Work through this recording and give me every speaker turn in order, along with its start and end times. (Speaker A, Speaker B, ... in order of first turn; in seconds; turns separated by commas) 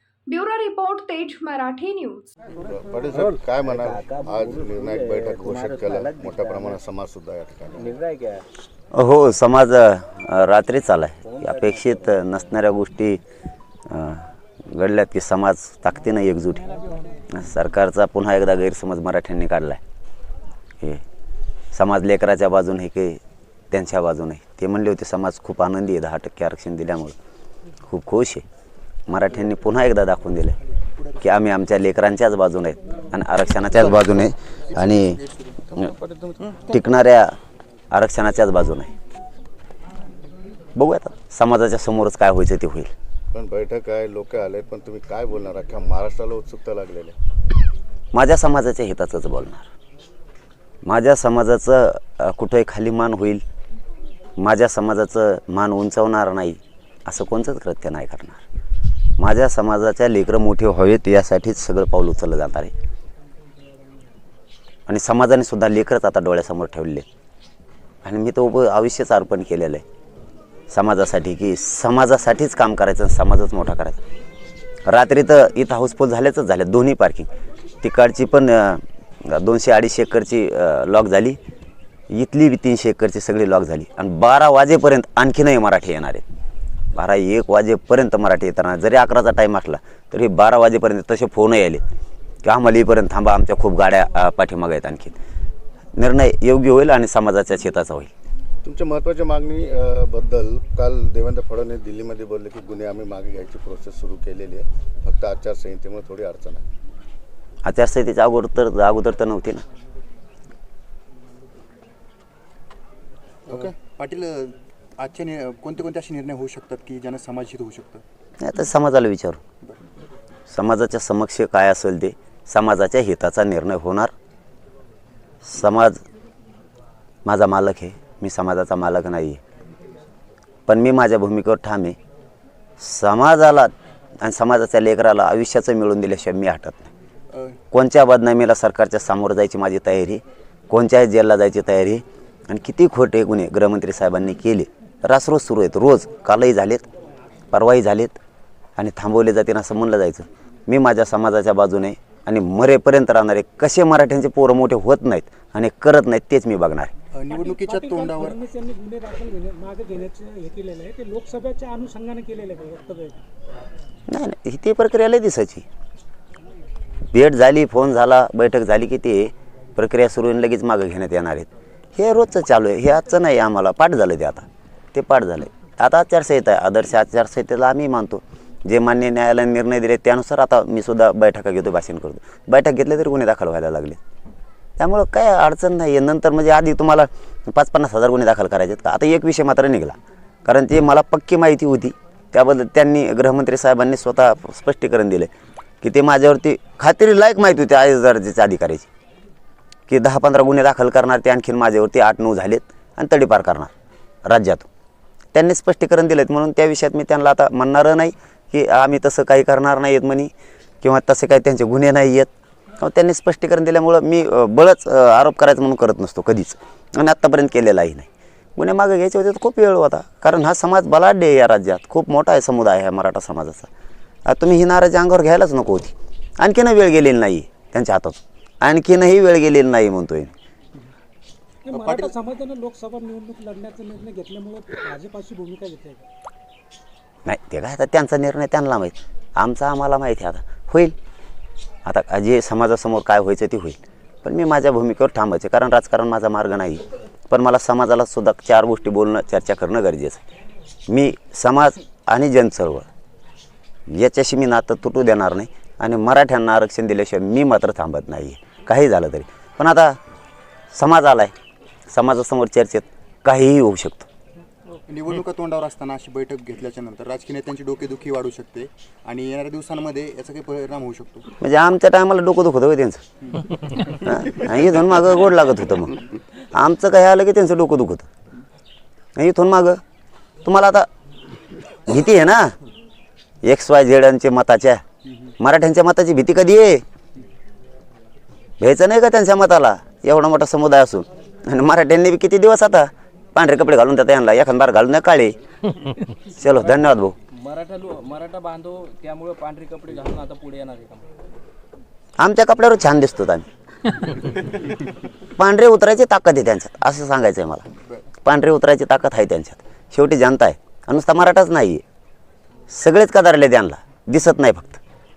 Speaker A: 0.3-2.3, Speaker B: 2.7-7.9, Speaker C: 3.2-6.8, Speaker C: 7.8-8.4, Speaker D: 8.9-13.2, Speaker C: 11.4-11.7, Speaker D: 13.9-16.7, Speaker D: 17.3-19.8, Speaker D: 21.7-23.2, Speaker D: 23.7-27.1, Speaker D: 27.9-28.4, Speaker D: 29.1-30.6, Speaker E: 30.7-31.4, Speaker D: 31.2-35.2, Speaker E: 33.7-36.6, Speaker D: 36.6-37.4, Speaker D: 37.9-38.9, Speaker D: 40.8-42.9, Speaker B: 43.3-47.2, Speaker D: 48.1-49.7, Speaker D: 50.8-53.4, Speaker D: 54.4-58.4, Speaker D: 59.2-62.7, Speaker D: 64.9-67.0, Speaker D: 68.0-69.8, Speaker D: 70.7-74.0, Speaker D: 74.8-77.3, Speaker D: 77.8-81.4, Speaker D: 82.1-86.2, Speaker D: 86.9-91.8, Speaker D: 92.4-95.2, Speaker D: 95.9-98.1, Speaker B: 98.6-106.6, Speaker D: 107.6-109.6, Speaker E: 113.5-118.0, Speaker D: 118.4-119.4, Speaker D: 120.5-124.1, Speaker D: 125.4-126.0, Speaker D: 127.2-129.4, Speaker D: 130.7-131.9, Speaker D: 132.8-136.9, Speaker E: 137.3-137.6, Speaker D: 137.7-146.8, Speaker D: 147.5-148.2, Speaker D: 148.8-156.9, Speaker E: 157.1-158.4, Speaker F: 157.3-163.2, Speaker D: 164.1-165.7, Speaker D: 167.1-184.0, Speaker D: 184.8-195.3, Speaker D: 195.8-198.9, Speaker D: 199.9-203.7, Speaker D: 204.2-204.7, Speaker D: 205.3-210.3, Speaker D: 210.8-223.7, Speaker D: 224.2-230.3, Speaker F: 231.6-236.1, Speaker E: 231.7-232.2, Speaker D: 237.2-240.9, Speaker D: 241.8-250.2, Speaker D: 250.9-252.9, Speaker D: 253.9-260.0, Speaker D: 260.7-261.3, Speaker D: 261.9-264.1, Speaker E: 264.9-271.3, Speaker D: 271.4-273.0, Speaker E: 273.3-273.9, Speaker D: 274.0-276.0, Speaker D: 276.5-278.1, Speaker D: 279.1-279.8, Speaker D: 280.4-280.9, Speaker D: 281.9-282.6, Speaker D: 283.4-284.8, Speaker D: 285.4-286.8, Speaker D: 288.6-295.4, Speaker D: 296.3-297.1, Speaker C: 297.4-301.0, Speaker D: 302.2-303.4, Speaker D: 305.4-307.6, Speaker D: 308.2-311.8, Speaker D: 312.7-314.8